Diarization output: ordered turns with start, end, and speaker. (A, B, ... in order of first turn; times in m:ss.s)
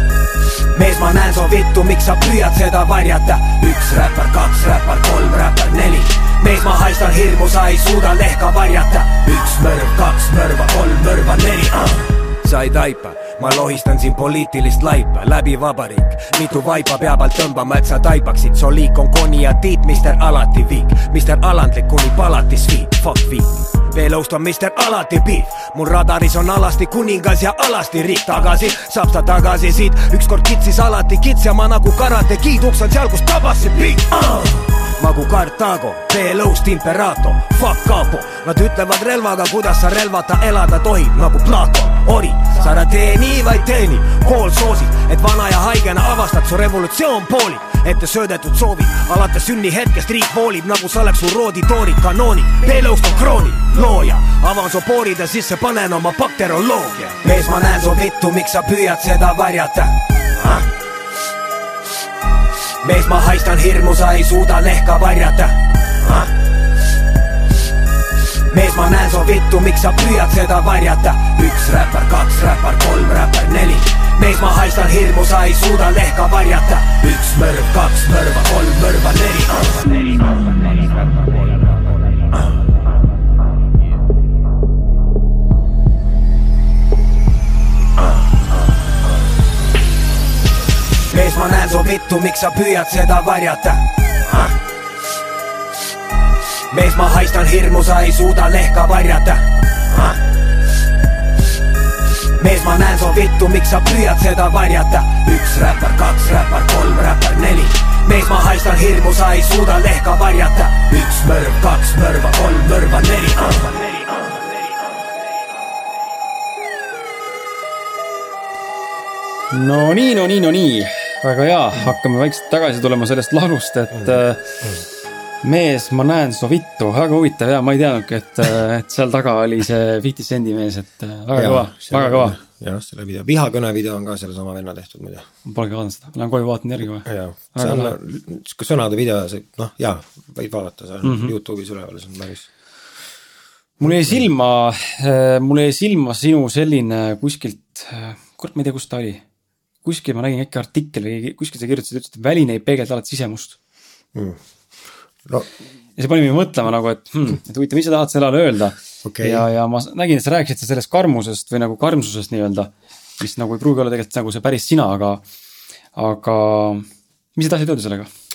0:00.7-1:00.7 A
1:02.8-1:06.3 A
1:08.5-1:20.2 A
1:31.1-1:34.5 A
1:36.7-1:40.2 A
1:42.4-1:54.0 A
1:59.5-2:04.7 B
2:03.9-2:04.8 C
2:05.4-2:12.4 B
2:11.3-2:15.3 C
2:15.4-2:18.0 B
2:17.0-2:22.5 C
2:21.0-2:21.3 B
2:23.8-2:29.2 B
2:23.8-2:24.2 C
2:29.8-2:33.6 B
2:34.1-2:34.4 C
2:35.2-2:35.5 C
2:36.0-2:45.2 B
2:39.0-2:39.4 C
2:45.9-2:48.1 B